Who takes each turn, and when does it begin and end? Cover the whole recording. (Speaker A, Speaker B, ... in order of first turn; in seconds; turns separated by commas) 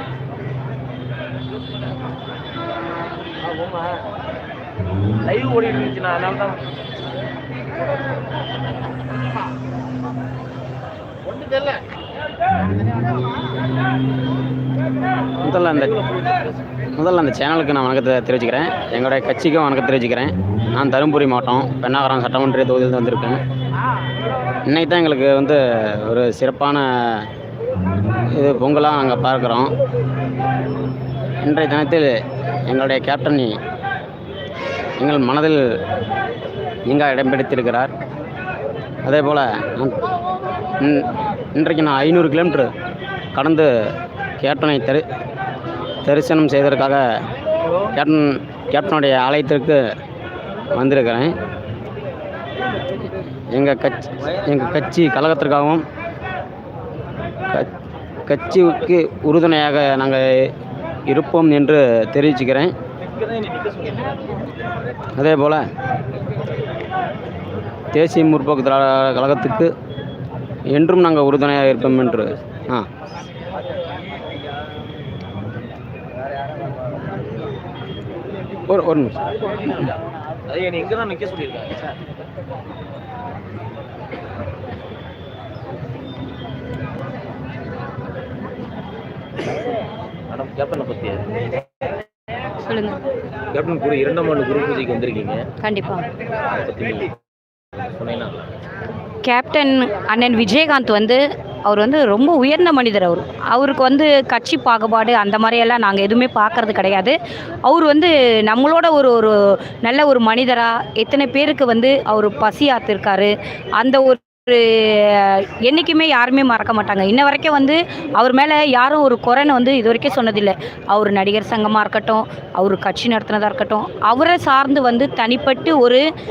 Speaker A: 3.5-3.8, Speaker A: 5.2-6.6, Speaker B: 15.4-15.9, Speaker A: 15.4-16.5, Speaker B: 16.9-23.4, Speaker B: 24.7-27.3, Speaker B: 28.3-29.7, Speaker B: 31.4-32.1, Speaker B: 32.7-33.6, Speaker B: 35.0-35.6, Speaker B: 36.9-37.9, Speaker B: 39.0-40.0, Speaker B: 40.8-42.7, Speaker B: 43.3-43.7, Speaker B: 44.4-45.1, Speaker B: 46.0-47.0, Speaker B: 48.0-49.8, Speaker B: 50.8-51.3, Speaker B: 53.5-55.9, Speaker B: 58.3-60.5, Speaker A: 58.5-58.9, Speaker B: 61.1-62.7, Speaker A: 63.1-64.4, Speaker B: 65.2-65.7, Speaker B: 67.9-69.7, Speaker B: 70.7-72.9, Speaker A: 71.5-72.6, Speaker B: 78.7-79.2, Speaker A: 79.6-79.9, Speaker A: 80.5-81.9, Speaker A: 90.3-91.3, Speaker C: 92.6-93.0, Speaker A: 93.5-95.4, Speaker C: 95.6-96.0, Speaker A: 96.5-97.1, Speaker A: 98.0-98.5, Speaker C: 99.2-109.3, Speaker C: 109.8-126.0